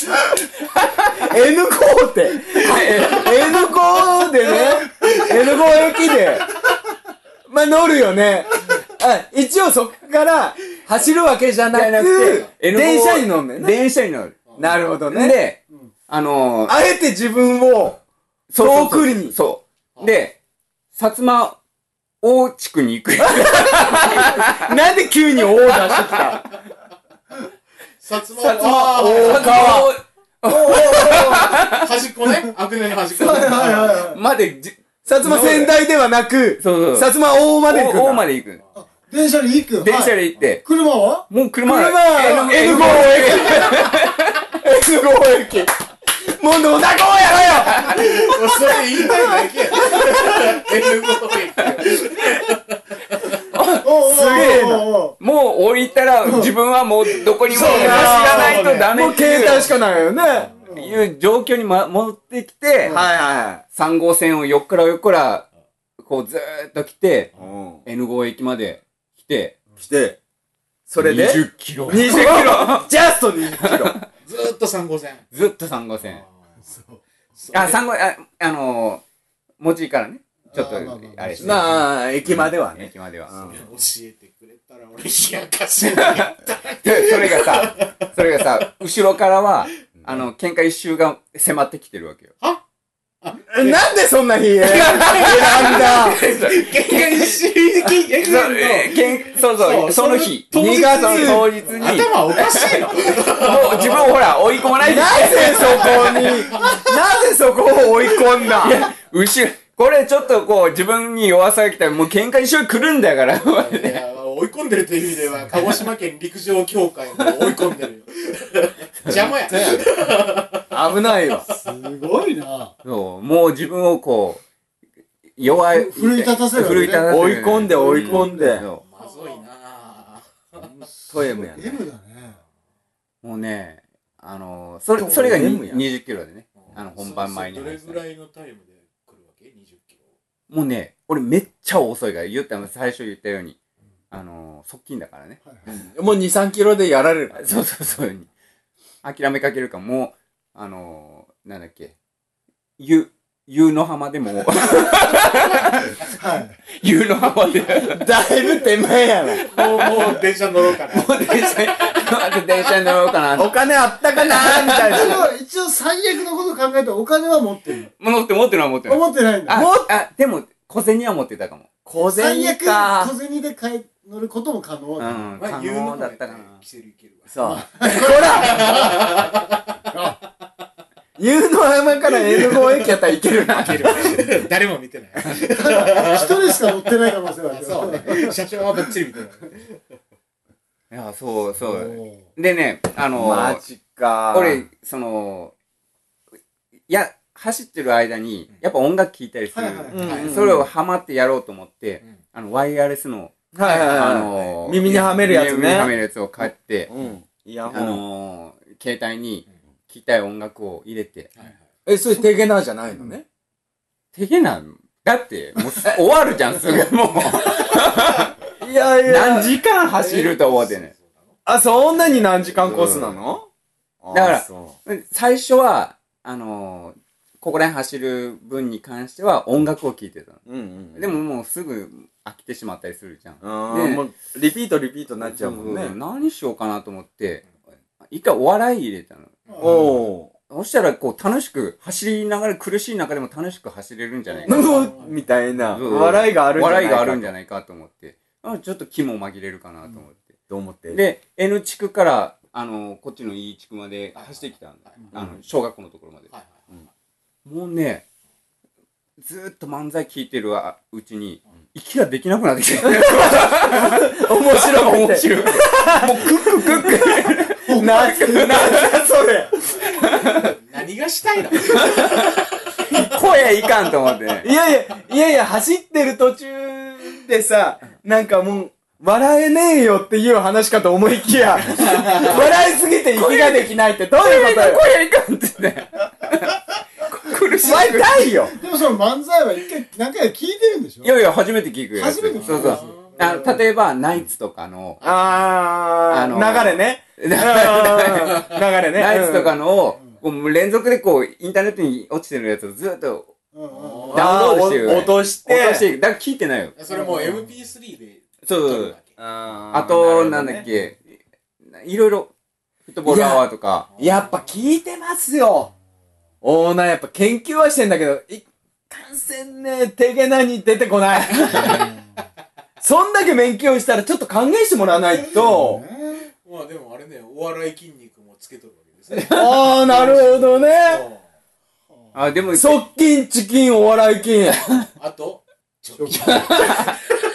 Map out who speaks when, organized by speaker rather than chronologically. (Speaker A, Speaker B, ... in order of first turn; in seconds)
Speaker A: 0.7-1.2, 2.6-3.5, 11.7-14.5, 15.1-16.8, 18.5-20.4, 20.9-21.6, 22.2-24.7, 25.8-26.2, 28.4-31.9, 34.1-35.7, 36.6-38.6, 39.8-40.6, 41.3-44.4, 47.7-48.1, 53.5-54.7, 55.2-59.7, 60.7-63.0, 63.7-65.5, 66.0-67.3, 67.8-69.6, 71.0-72.9, 73.6-74.0, 75.3-76.2, 77.5-79.0, 79.6-83.6, 85.9-92.3, 94.9-97.4, 98.0-106.3, 108.5-114.0, 122.8-124.4, 125.4-128.8, 133.2-138.0, 140.5-143.6, 144.1-145.4, 147.3-148.3, 149.0-151.9, 152.8-155.9, 156.8-158.1, 159.5-160.1, 160.9-163.6, 164.1-165.1, 168.0-171.7, 175.0-176.6, 190.9-193.6, 194.3-195.5, 196.9-206.9, 207.7-211.3, 214.1-218.3, 219.0-220.9, 222.6-223.2, 224.1-230.4, 230.9-234.1, 235.2-237.4, 238.1-239.3, 240.5-244.9, 245.7-250.3, 250.9-256.3, 257.4-258.0, 259.2-268.9, 269.8-270.5, 271.8-272.3, 272.9-274.5, 283.1-288.3, 291.0-295.0, 296.1-303.3, 304.1-306.7, 308.4-308.9, 309.7-311.0, 311.6-312.3, 312.9-313.9, 332.1-332.8, 336.2-336.9
Speaker B: 1.1-6.5, 7.5-13.8, 14.6-15.4, 16.7-18.0, 18.6-19.3, 23.2-26.4, 28.8-29.9, 30.4-31.6, 35.0-38.3, 41.6-48.2, 49.8-50.6, 54.0-54.9, 57.5-60.5, 62.8-63.6, 67.3-67.8, 69.8-70.2, 70.9-74.0, 81.4-83.6, 93.5-96.2, 100.5-101.5, 104.8-108.9, 119.5-119.8, 120.7-121.5, 126.6-128.7, 131.1-131.8, 135.0-135.8, 145.7-147.6, 157.7-159.5, 163.3-165.3, 169.5-169.9, 171.8-173.1, 177.3-178.8, 181.2-184.2, 193.1-194.6, 199.9-200.7, 203.5-208.0, 211.8-213.2, 218.6-219.6, 221.4-223.5, 224.0-224.8, 230.4-231.2, 233.4-235.9, 239.6-240.3, 244.4-247.3, 250.5-251.0, 255.1-255.4, 262.8-269.5, 274.4-284.8, 287.6-288.5, 295.0-299.6, 304.1-305.9, 309.2-310.6, 313.0-313.4, 314.0-315.7, 316.4-321.9, 322.8-325.8, 329.3-331.0, 332.5-334.9
Speaker C: 5.0-5.3, 28.0-29.9, 31.1-34.1, 47.9-53.2, 57.5-58.8, 60.3-60.7, 74.2-75.3, 76.0-76.3, 77.4-77.8, 83.5-88.1, 93.2-93.8, 94.6-104.4, 105.3-106.8, 113.5-120.7, 128.8-130.7, 136.6-140.1, 159.5-162.4, 175.4-177.3, 178.0-179.6, 182.1-186.9, 187.4-189.8, 200.0-200.4, 217.4-218.2, 219.9-221.3, 239.5-239.8, 244.6-245.2, 270.0-272.2, 281.9-282.4, 292.3-293.1, 303.7-304.3, 306.8-309.1, 313.9-314.3, 326.4-331.2, 335.0-336.7
Speaker D: 33.1-34.2, 38.8-41.3, 42.2-43.6, 53.8-55.1, 56.2-56.5, 57.6-58.8, 60.6-61.0, 76.7-77.0, 80.5-81.8, 121.5-122.7, 125.5-128.6, 131.2-132.4, 156.1-156.6, 164.9-167.9, 168.8-169.7, 172.0-175.3, 177.4-179.3, 179.9-180.2, 185.5-188.4, 191.7-192.2, 199.5-200.3, 239.5-239.9, 244.5-245.1, 266.4-266.9, 267.6-269.4, 288.5-291.1, 291.9-293.6, 303.5-304.2, 306.9-307.4, 321.5-322.0, 325.3-326.3, 336.0-336.5